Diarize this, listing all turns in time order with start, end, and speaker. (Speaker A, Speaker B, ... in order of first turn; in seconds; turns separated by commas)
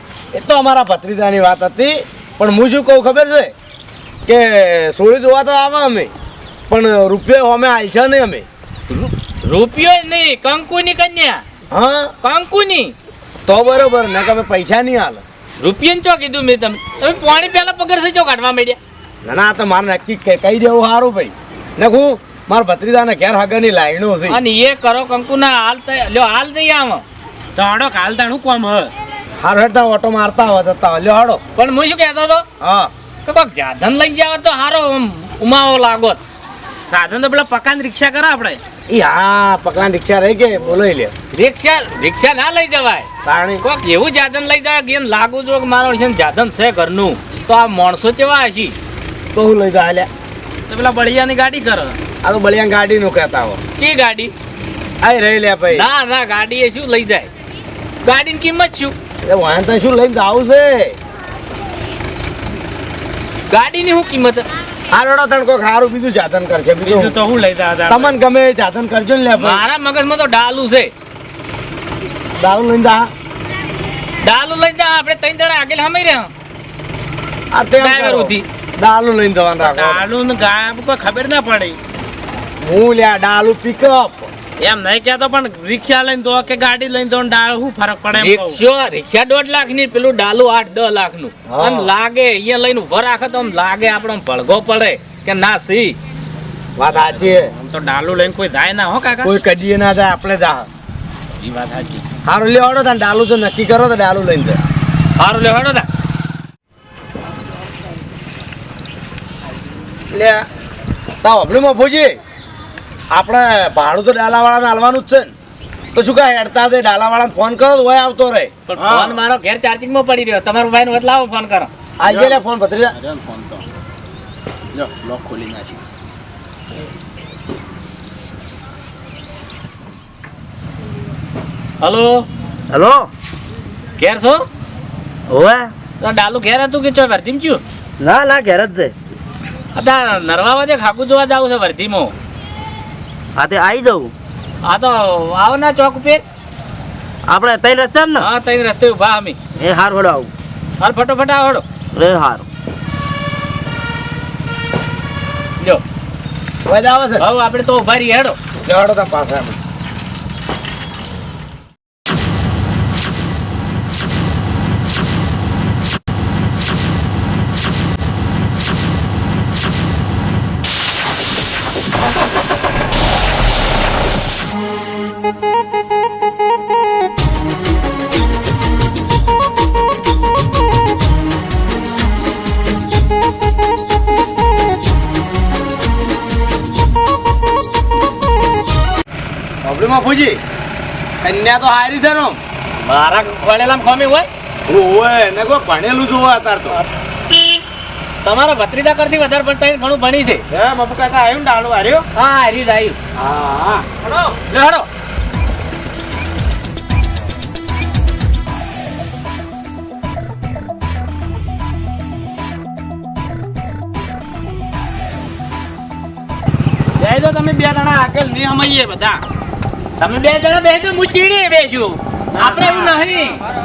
Speaker A: 0.3-3.5, Speaker A: 4.2-6.1, Speaker A: 6.7-8.4, Speaker B: 8.9-11.4, Speaker A: 11.7-12.1, Speaker B: 12.2-12.9, Speaker A: 13.4-15.2, Speaker B: 15.6-18.8, Speaker A: 19.2-24.4, Speaker B: 24.3-27.0, Speaker C: 27.6-28.9, Speaker A: 29.4-31.4, Speaker B: 31.6-32.4, Speaker A: 32.6-32.9, Speaker B: 33.2-36.2, Speaker C: 36.9-38.6, Speaker A: 38.9-41.1, Speaker B: 41.3-43.1, Speaker A: 43.2-43.6, Speaker B: 43.6-48.8, Speaker A: 49.3-50.1, Speaker C: 50.7-52.0, Speaker A: 52.2-53.6, Speaker B: 53.8-54.3, Speaker A: 55.0-55.9, Speaker B: 55.7-57.3, Speaker B: 58.0-59.0, Speaker A: 59.2-61.0, Speaker B: 63.5-64.5, Speaker A: 64.9-67.1, Speaker C: 66.9-68.1, Speaker A: 67.9-69.6, Speaker B: 69.4-70.9, Speaker A: 72.4-73.1, Speaker B: 74.2-76.3, Speaker A: 77.5-80.0, Speaker B: 77.8-78.4, Speaker C: 79.6-81.8, Speaker A: 82.6-84.3, Speaker C: 84.6-88.6, Speaker B: 88.1-96.0, Speaker A: 91.5-91.9, Speaker A: 96.8-97.5, Speaker C: 97.2-99.3, Speaker A: 99.2-100.7, Speaker C: 101.4-102.0, Speaker A: 102.2-104.6, Speaker B: 105.2-105.9, Speaker A: 110.1-110.5, Speaker A: 111.2-112.2, Speaker A: 113.1-115.3, Speaker A: 115.9-118.5, Speaker B: 118.7-121.7, Speaker C: 118.8-119.2, Speaker A: 122.0-123.0, Speaker C: 122.1-122.4, Speaker C: 123.0-123.6, Speaker B: 131.8-132.3, Speaker D: 132.7-133.1, Speaker B: 134.0-134.4, Speaker D: 135.3-135.7, Speaker B: 136.0-137.6, Speaker D: 138.0-138.9, Speaker B: 139.8-142.1, Speaker D: 143.4-144.1, Speaker B: 144.6-146.2, Speaker D: 147.3-148.3, Speaker B: 148.2-149.4, Speaker D: 149.6-150.3, Speaker B: 150.8-151.6, Speaker D: 151.9-152.4, Speaker A: 156.7-157.3, Speaker B: 157.2-158.4, Speaker A: 158.6-159.6, Speaker A: 189.6-190.4, Speaker A: 191.2-192.4, Speaker B: 192.8-194.3, Speaker A: 194.7-196.8, Speaker B: 198.2-200.4, Speaker C: 200.5-202.1, Speaker B: 202.2-203.0, Speaker C: 203.2-203.9, Speaker B: 204.0-204.9, Speaker C: 217.0-219.2, Speaker B: 220.0-223.4, Speaker C: 222.3-223.0